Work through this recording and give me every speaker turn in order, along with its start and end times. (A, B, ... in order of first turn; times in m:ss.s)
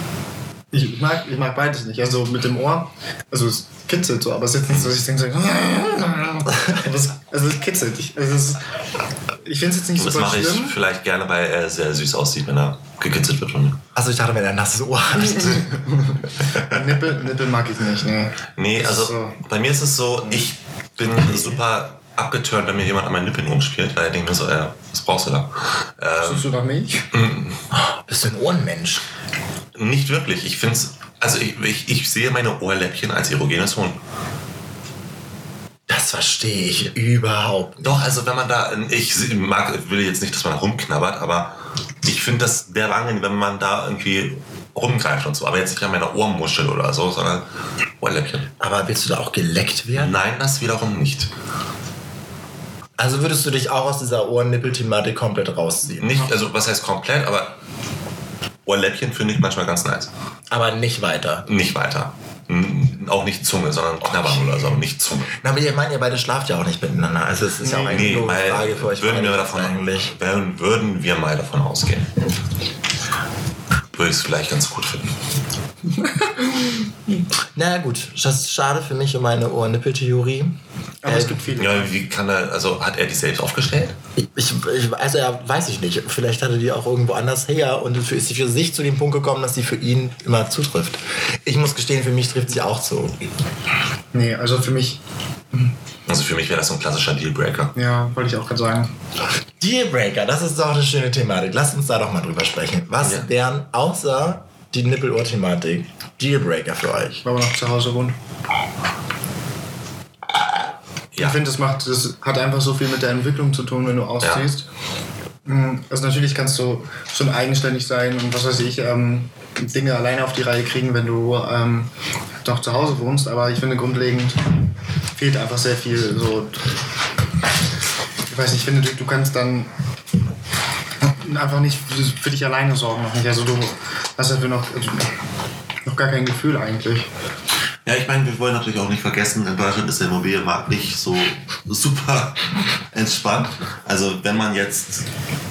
0:00.7-0:08.6 A
0:09.4-0:10.8 A
0:10.0-0:13.8 B
0:14.0-0:15.8 C
0:15.2-0:19.4 A
0:16.5-0:16.9 B
0:18.6-0:26.5 B
0:26.2-0:27.1 A
0:27.1-0:27.6 B
0:27.7-0:29.0 C
0:29.8-0:34.0 B
0:35.9-0:38.1 C
0:37.8-0:47.5 B
0:48.0-0:48.5 B
0:48.6-0:50.1 C
0:50.0-0:51.3 B
0:53.0-0:56.2 C
0:56.0-0:57.6 B
0:58.6-1:00.1 B
1:00.5-1:01.5 C
1:01.5-1:05.4 B
1:04.1-1:04.8 C
1:05.4-1:10.1 C
1:07.6-1:08.1 A
1:07.9-1:12.1 B
1:13.9-1:15.1 B
1:16.0-1:16.9 A
1:17.6-1:21.4 C
1:21.0-1:21.9 A
1:21.6-1:24.0 B
1:24.2-1:33.2 C
1:34.1-1:35.0 A
1:36.1-1:37.8 B
1:37.8-1:38.9 A
1:39.6-1:47.2 C
1:43.0-1:43.3 B
1:47.2-1:48.2 A
1:51.1-1:51.4 B
1:51.2-1:54.7 A
1:54.2-1:54.5 B
1:55.4-2:01.9 A
2:02.4-2:04.5 A
2:05.1-2:06.7 A
2:08.3-2:09.7 A
2:11.0-2:15.1 A
2:15.9-2:17.1 A
2:17.8-2:25.1 B